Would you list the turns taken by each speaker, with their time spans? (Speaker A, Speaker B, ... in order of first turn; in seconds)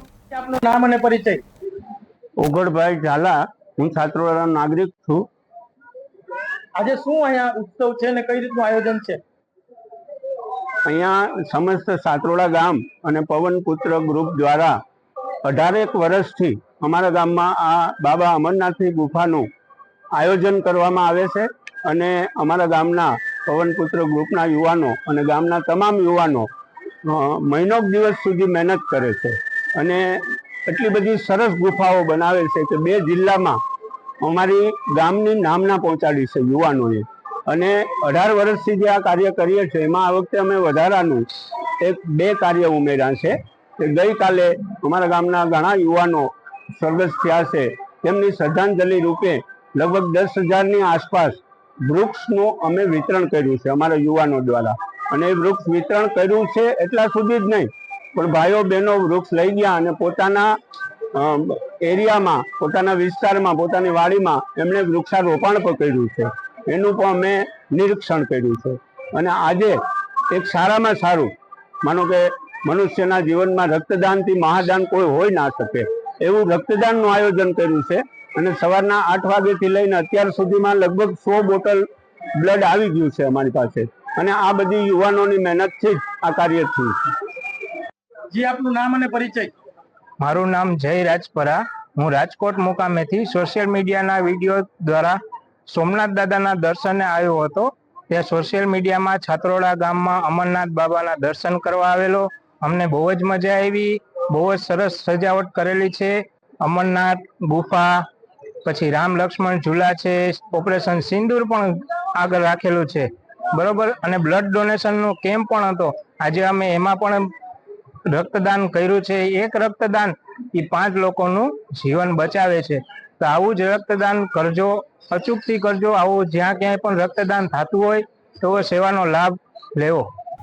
Speaker A: 0.3-1.4, 6.7-9.2, 88.3-89.5
Speaker B: 2.4-5.2, 10.8-14.7, 15.4-19.4, 20.1-26.5, 27.0-33.6, 34.2-41.2, 41.8-60.5, 61.1-69.8, 70.3-71.3, 71.8-81.8, 82.4-87.1
Speaker C: 90.2-108.0, 108.6-117.2, 118.1-130.1